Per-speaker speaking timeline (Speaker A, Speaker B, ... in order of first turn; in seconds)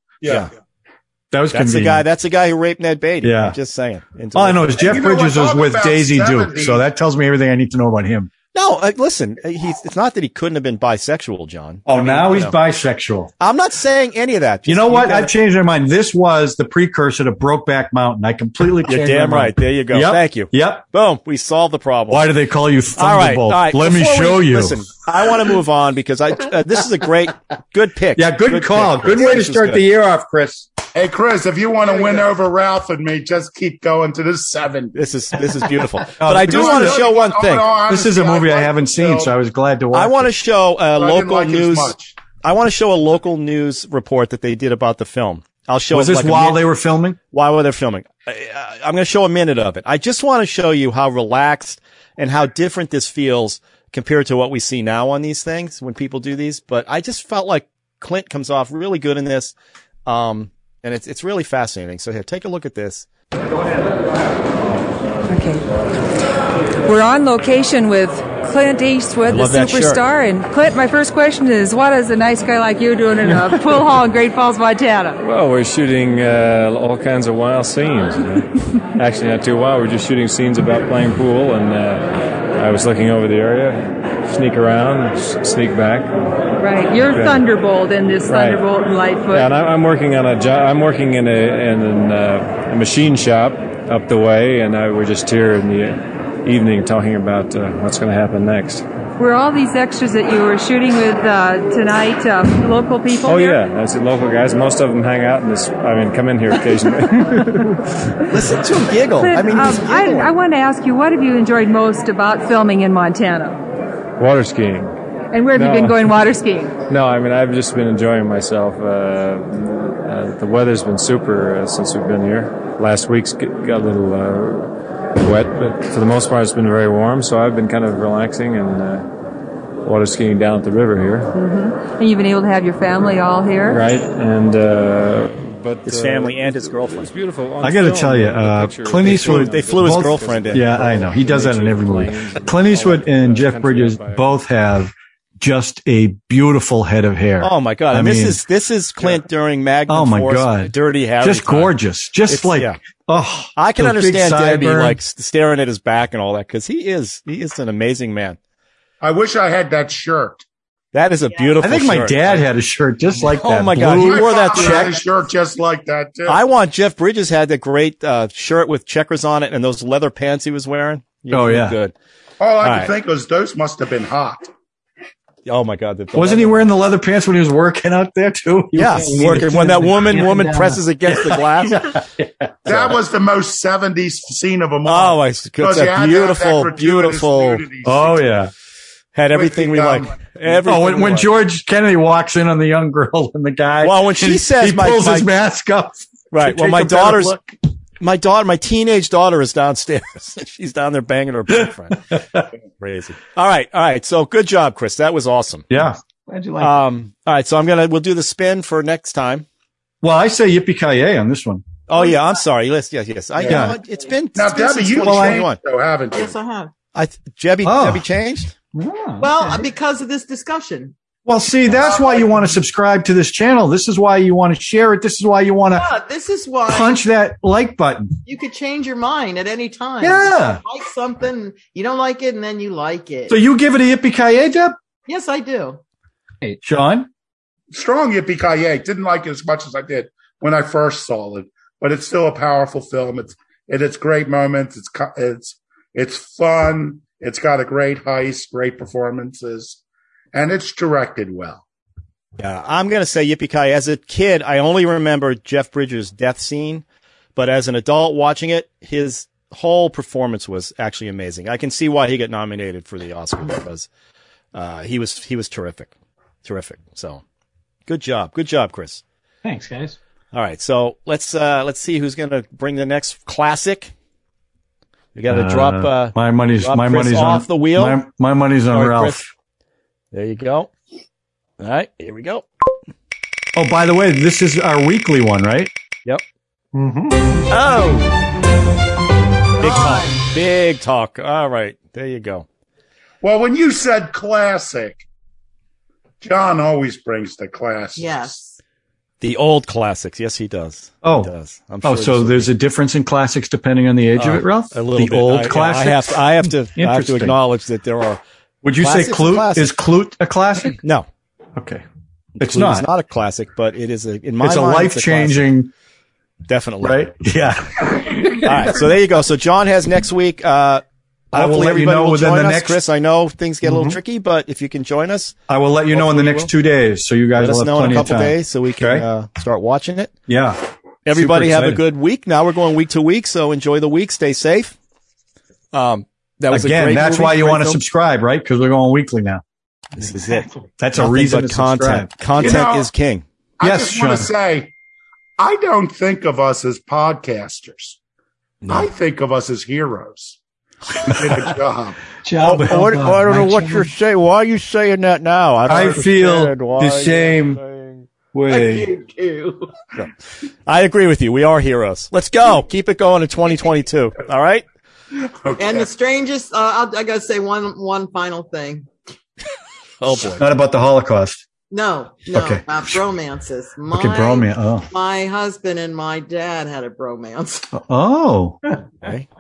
Speaker A: 0.2-0.5, 4.8-6.8, 30.9-35.0, 36.3-39.3, 40.9-42.1, 159.0-160.4, 164.0-166.4, 172.4-174.5, 182.6-188.2, 189.3-190.2, 214.3-216.4, 237.7-249.8, 250.3-251.6, 293.2-295.1, 296.2-298.3, 342.4-342.9, 343.6-344.7, 345.4-348.0, 348.7-350.4, 350.9-352.0, 365.4-365.9
Speaker B: 1.3-2.0, 3.2-3.6, 4.3-8.3, 11.9-13.3, 14.7-20.8, 22.1-24.8, 28.2-30.7, 36.2-37.1, 37.9-40.3, 45.9-47.2, 137.6-148.4, 149.9-155.0, 161.6-164.9, 171.3-171.8, 176.1-179.5, 181.3-182.5, 187.8-188.5, 190.5-197.6, 202.1-202.4, 205.7-206.0, 210.0-211.6, 213.5-213.8, 215.0-215.4, 217.6-218.1, 218.7-219.2, 221.3-225.9, 226.7-228.2, 230.0-230.6, 233.3-234.8, 236.6-237.1, 275.3-279.3, 283.6-285.7, 301.0-301.3, 301.8-307.4, 308.6-310.8, 311.6-311.8, 312.4-312.9, 314.4-315.7, 316.8-318.8, 321.3-322.8, 325.5-329.1, 330.3-331.8, 336.5-339.4, 340.8-342.6, 343.6-344.3, 352.5-352.8, 355.7-357.6, 358.3-358.9, 370.3-371.4, 372.3-373.0, 373.9-374.9, 377.7-378.6
Speaker C: 1.5-5.0, 8.5-12.6, 13.4-15.3, 18.9-22.3, 22.9-29.8, 34.9-37.7, 39.9-46.7, 47.3-59.5, 60.0-63.0, 69.3-70.0, 108.3-110.3, 135.9-137.1, 139.0-140.8, 147.4-151.7, 152.3-152.8, 153.6-158.4, 160.9-162.5, 163.2-165.0, 166.3-171.9, 172.6-172.9, 175.4-176.7, 178.7-182.0, 182.7-183.0, 184.8-187.6, 189.1-191.3, 193.8-195.3, 196.3-197.4, 198.0-202.2, 202.8-205.7, 206.6-209.4, 211.9-215.6, 216.9-218.5, 252.4-256.8, 257.4-263.9, 264.5-265.9, 266.4-267.2, 267.9-269.0, 270.3-273.9, 275.1-278.0, 278.7-279.2, 280.1-280.7, 281.6-282.4, 287.5-288.2, 289.6-292.4, 299.2-302.5, 304.2-308.2, 308.7-309.7, 310.8-311.1, 312.4-315.5, 316.5-317.2, 318.4-325.3, 325.9-326.5, 327.4-330.1, 331.1-334.8, 335.7-337.8, 340.0-343.2, 352.4-358.1, 360.7-364.6, 370.0-370.4, 379.0-379.3
Speaker D: 65.3-65.7, 66.8-75.2, 86.6-89.5, 99.2-103.7, 109.2-113.6, 115.3-116.8, 131.3-133.8
Speaker E: 75.2-86.1, 87.0-87.4, 88.3-88.6, 89.3-98.8, 103.2-107.8, 114.2-115.0, 115.5-116.2, 116.9-129.1, 129.8-131.3, 133.7-144.4
Speaker F: 178.9-180.8, 205.7-206.8, 218.8-219.4, 269.4-270.0, 286.7-287.3, 323.6-324.0, 352.2-353.9
Speaker G: 211.9-212.3, 216.1-216.7, 219.2-220.9, 221.9-222.5, 225.7-227.1, 228.2-233.4, 235.1-235.8, 289.6-290.3, 297.9-298.6, 358.5-359.7, 365.6-368.9, 371.7-377.7